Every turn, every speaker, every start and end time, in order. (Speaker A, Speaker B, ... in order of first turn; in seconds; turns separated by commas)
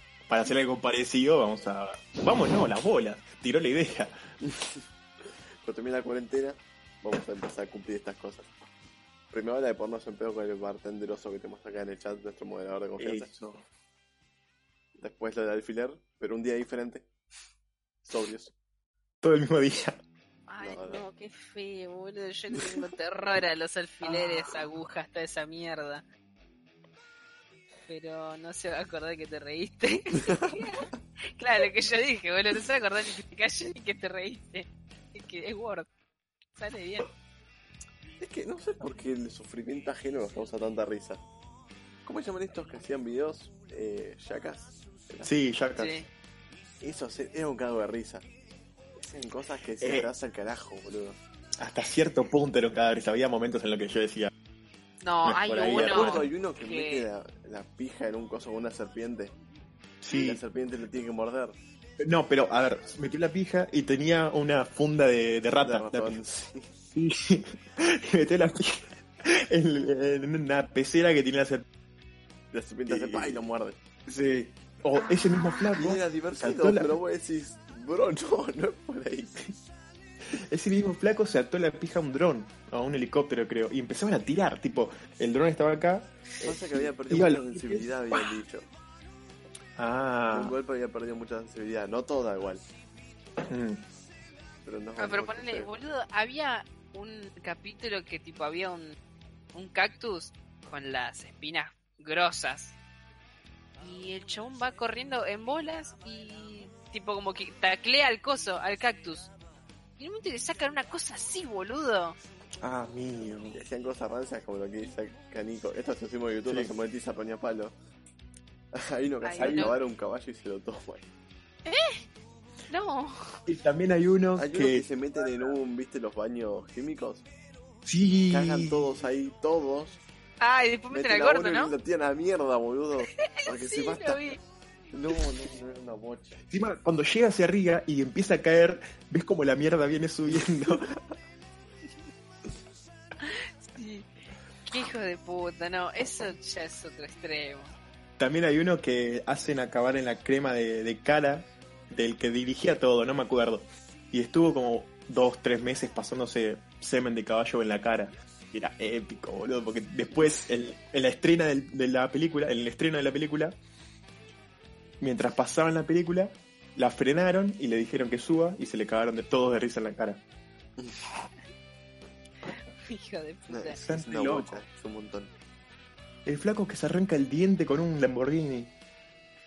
Speaker A: 0.3-4.2, Speaker B: 4.5-4.8, Speaker B: 5.6-8.5, Speaker B: 9.3-13.4, Speaker A: 13.0-13.6, Speaker B: 15.0-17.1, Speaker B: 18.0-18.5, Speaker A: 19.2-20.0, Speaker C: 20.5-26.0, Speaker B: 20.6-21.0, Speaker C: 27.9-35.9, Speaker B: 30.3-30.6, Speaker C: 36.6-37.1, Speaker B: 38.2-41.2, Speaker B: 42.0-45.3, Speaker A: 45.2-46.0, Speaker C: 45.8-46.1, Speaker B: 46.8-48.3, Speaker B: 49.0-51.2, Speaker A: 49.8-50.1, Speaker A: 51.6-54.3, Speaker C: 55.0-57.1, Speaker A: 55.2-56.3, Speaker B: 55.6-59.4, Speaker A: 60.0-60.4, Speaker B: 60.1-61.6, Speaker A: 62.0-66.2, Speaker B: 65.6-66.7, Speaker A: 66.9-71.7, Speaker B: 72.5-73.8, Speaker A: 72.9-73.4, Speaker A: 74.1-77.0, Speaker B: 75.8-79.5, Speaker A: 80.3-88.3, Speaker B: 86.4-88.7, Speaker A: 89.8-90.5, Speaker B: 90.3-92.6, Speaker A: 93.5-93.8, Speaker B: 94.7-95.7, Speaker C: 95.0-99.0, Speaker C: 99.5-102.8, Speaker C: 103.8-109.3, Speaker C: 110.0-112.2, Speaker A: 112.6-113.6, Speaker B: 113.5-117.8, Speaker B: 118.7-121.1, Speaker C: 119.2-119.8, Speaker A: 119.4-119.7, Speaker C: 121.7-122.0, Speaker C: 122.7-123.4, Speaker A: 123.5-124.8, Speaker B: 124.4-127.3, Speaker A: 127.8-129.0, Speaker B: 128.3-130.0, Speaker C: 130.4-131.7, Speaker B: 130.9-134.4, Speaker C: 133.2-134.4, Speaker B: 134.9-136.4, Speaker A: 136.5-140.9, Speaker C: 143.2-144.1, Speaker C: 144.7-147.8, Speaker A: 148.2-163.6, Speaker A: 165.0-170.2, Speaker C: 172.8-173.8, Speaker B: 173.5-175.3, Speaker A: 173.8-174.6, Speaker A: 176.3-178.7